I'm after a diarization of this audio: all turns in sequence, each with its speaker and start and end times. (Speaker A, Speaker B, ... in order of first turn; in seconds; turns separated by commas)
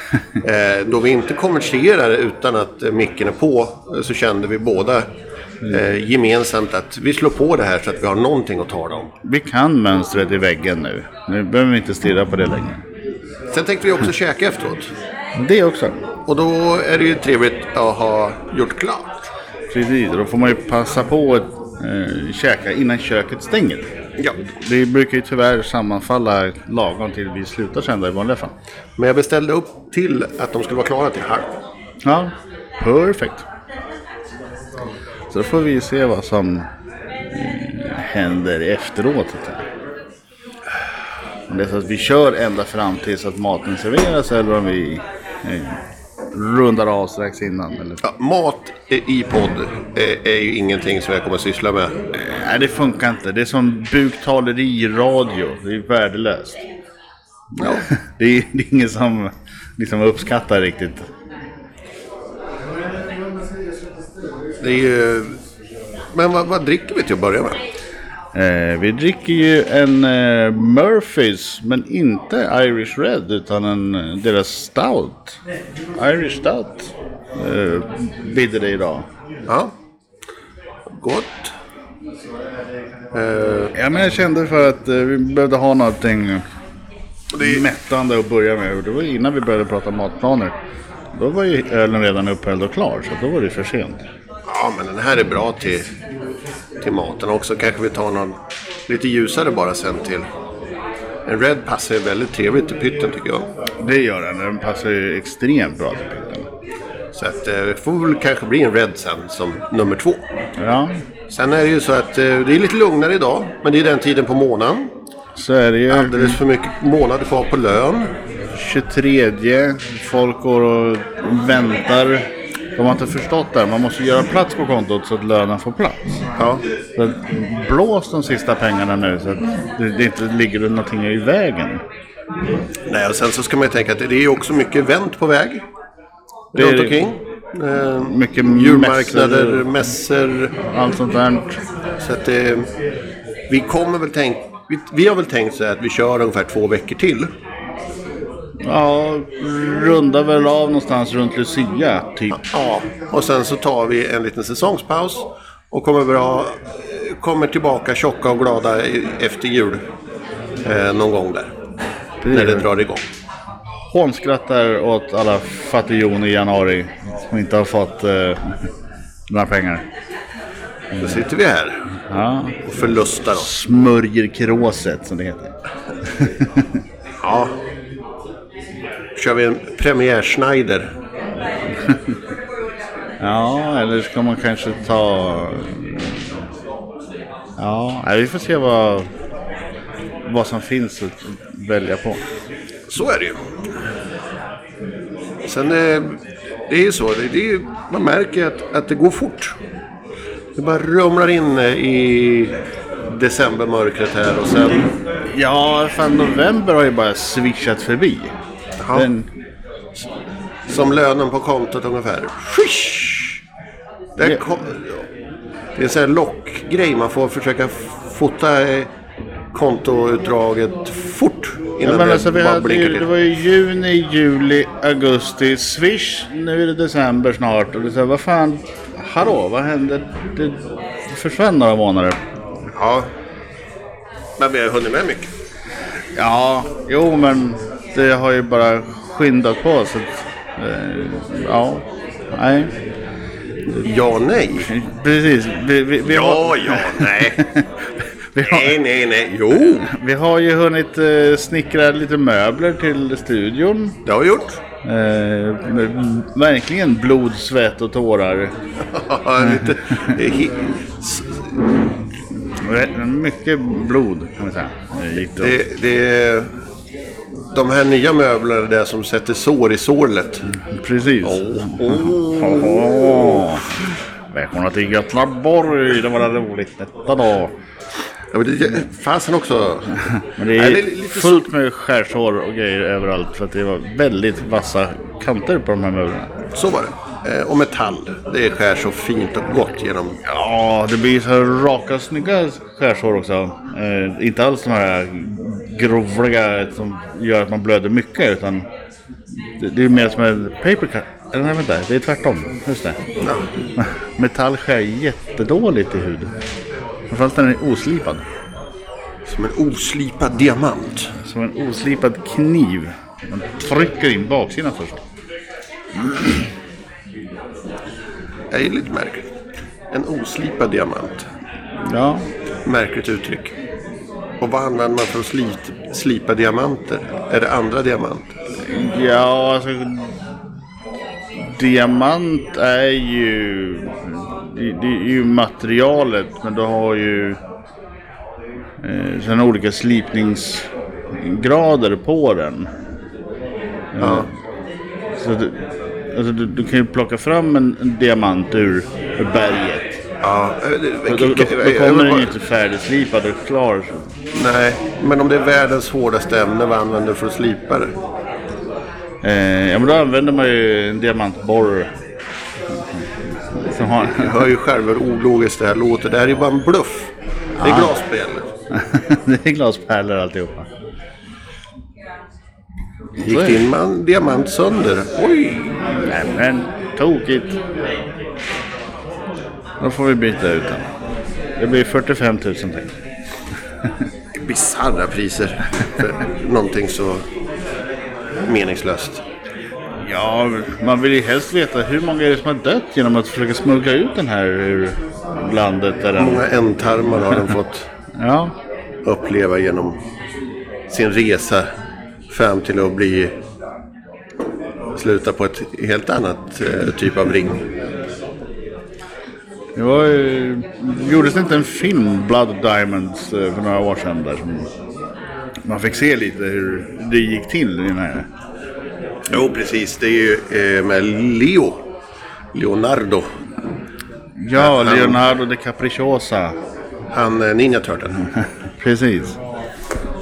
Speaker A: 0.4-5.0, Speaker A: 5.7-9.1, Speaker B: 9.2-12.8, Speaker A: 13.5-14.9, Speaker B: 15.4-16.0, Speaker A: 16.3-19.1, Speaker B: 19.7-23.9, Speaker B: 24.4-28.5, Speaker A: 29.0-31.5, Speaker B: 32.0-33.4, Speaker B: 35.3-36.7, Speaker B: 37.3-39.6, Speaker B: 41.5-45.8, Speaker B: 46.3-48.0, Speaker A: 48.0-52.0, Speaker B: 52.1-56.6, Speaker A: 57.6-57.9, Speaker B: 57.6-61.1, Speaker A: 64.6-65.3, Speaker A: 66.1-67.6, Speaker B: 68.3-75.4, Speaker B: 76.0-79.0, Speaker A: 80.9-81.5, Speaker A: 83.1-83.7, Speaker B: 83.7-86.4, Speaker A: 87.3-87.7, Speaker B: 87.4-90.5, Speaker B: 91.1-94.0, Speaker A: 94.5-95.9, Speaker A: 96.8-98.3, Speaker A: 98.9-100.2, Speaker A: 101.2-103.5, Speaker B: 103.8-106.5, Speaker A: 107.1-110.2, Speaker B: 110.6-111.0, Speaker A: 111.3-114.9, Speaker B: 115.3-116.4, Speaker A: 115.9-118.1, Speaker B: 118.5-126.2, Speaker A: 126.4-126.6, Speaker B: 127.0-131.8, Speaker A: 132.9-135.6, Speaker A: 136.5-140.5, Speaker B: 136.5-137.1, Speaker B: 138.0-139.7, Speaker B: 140.7-141.6, Speaker A: 142.0-142.7, Speaker A: 143.5-147.3, Speaker B: 148.6-152.4, Speaker A: 152.3-159.8, Speaker A: 160.6-161.5, Speaker B: 162.2-162.7, Speaker A: 162.3-163.0, Speaker B: 163.9-168.4, Speaker B: 169.3-169.8, Speaker A: 171.0-171.8, Speaker B: 172.1-175.5, Speaker A: 172.6-173.6, Speaker B: 176.1-176.7, Speaker A: 177.2-177.5, Speaker A: 179.2-180.9, Speaker B: 183.2-186.3, Speaker B: 187.6-189.1, Speaker B: 190.2-192.2, Speaker A: 192.9-193.4, Speaker A: 195.4-199.6, Speaker A: 200.6-202.5, Speaker A: 203.1-204.9, Speaker B: 205.3-208.3, Speaker A: 208.8-209.1, Speaker B: 208.9-209.3, Speaker A: 210.7-213.4, Speaker A: 214.2-214.9, Speaker A: 215.8-218.9, Speaker A: 219.5-223.1, Speaker B: 221.8-232.2, Speaker A: 232.7-233.1, Speaker A: 234.4-235.3, Speaker B: 236.2-242.7, Speaker A: 243.7-244.7, Speaker B: 244.6-247.6, Speaker A: 246.1-247.4, Speaker B: 248.3-248.7, Speaker A: 248.4-249.9, Speaker B: 249.7-253.9, Speaker A: 254.0-254.6, Speaker B: 254.8-258.5, Speaker A: 258.9-261.6, Speaker B: 262.6-265.5, Speaker A: 265.4-266.5, Speaker A: 267.5-270.4, Speaker B: 270.5-273.7, Speaker A: 271.2-273.5, Speaker B: 274.3-277.5, Speaker A: 278.3-281.4, Speaker B: 280.4-286.3, Speaker A: 286.5-290.2, Speaker B: 290.2-298.7, Speaker B: 299.6-303.0, Speaker A: 303.2-303.4, Speaker B: 303.8-306.3, Speaker B: 307.1-308.2, Speaker A: 309.2-311.1, Speaker B: 311.2-315.0, Speaker A: 318.5-319.2, Speaker A: 319.9-321.2, Speaker B: 321.8-322.2, Speaker A: 322.6-323.5, Speaker A: 324.4-328.3, Speaker B: 328.6-330.1, Speaker B: 331.4-337.4, Speaker B: 338.8-342.7, Speaker B: 343.9-344.3, Speaker A: 344.0-344.3, Speaker B: 345.2-345.6, Speaker B: 346.1-349.9, Speaker A: 350.2-352.3, Speaker B: 351.1-354.0, Speaker A: 354.3-357.9, Speaker B: 359.2-361.9, Speaker B: 363.6-364.5, Speaker A: 364.0-368.5, Speaker B: 367.6-367.9, Speaker B: 368.7-370.7, Speaker A: 373.2-375.7, Speaker B: 373.2-373.6, Speaker B: 376.1-377.6, Speaker B: 379.8-380.9, Speaker B: 381.6-382.9, Speaker A: 384.3-387.2, Speaker A: 388.5-389.2, Speaker B: 390.0-396.4, Speaker A: 396.1-397.9, Speaker B: 398.1-398.5, Speaker A: 399.0-400.0, Speaker A: 400.9-401.7, Speaker A: 402.3-403.3, Speaker A: 404.9-407.6, Speaker B: 409.8-414.7, Speaker B: 415.6-418.3, Speaker A: 419.3-421.8, Speaker A: 422.5-423.3, Speaker B: 424.4-426.6, Speaker A: 424.5-425.2, Speaker A: 427.1-428.2, Speaker B: 428.8-429.4